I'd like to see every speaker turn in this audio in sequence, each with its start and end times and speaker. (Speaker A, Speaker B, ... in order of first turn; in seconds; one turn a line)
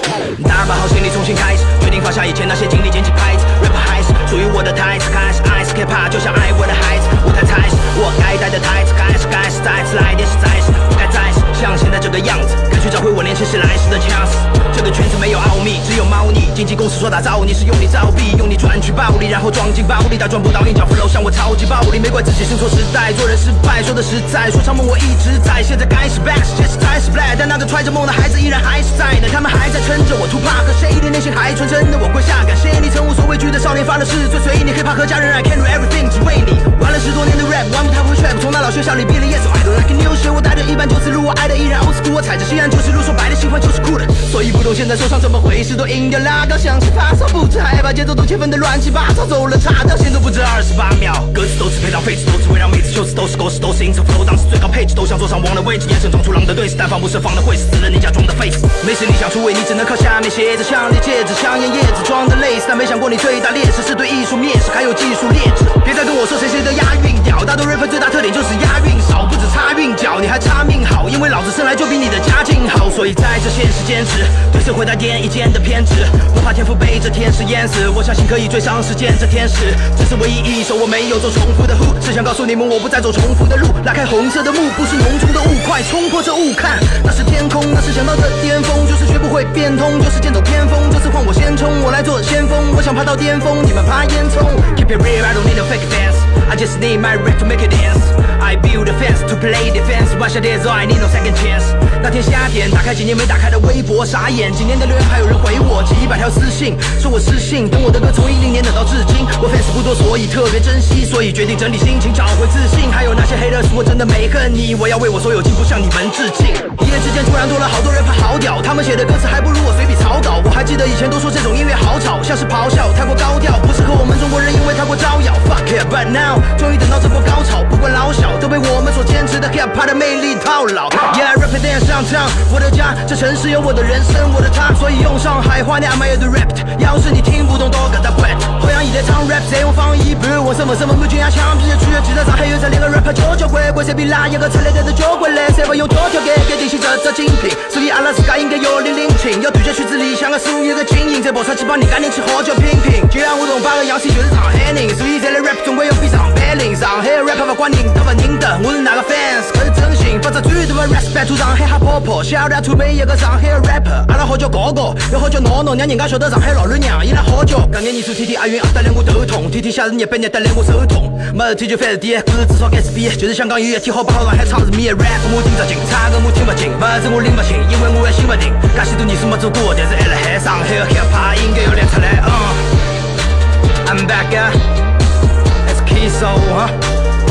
Speaker A: 0.3-182.7
Speaker A: 183.8-184.6
Speaker A: 185.6-186.7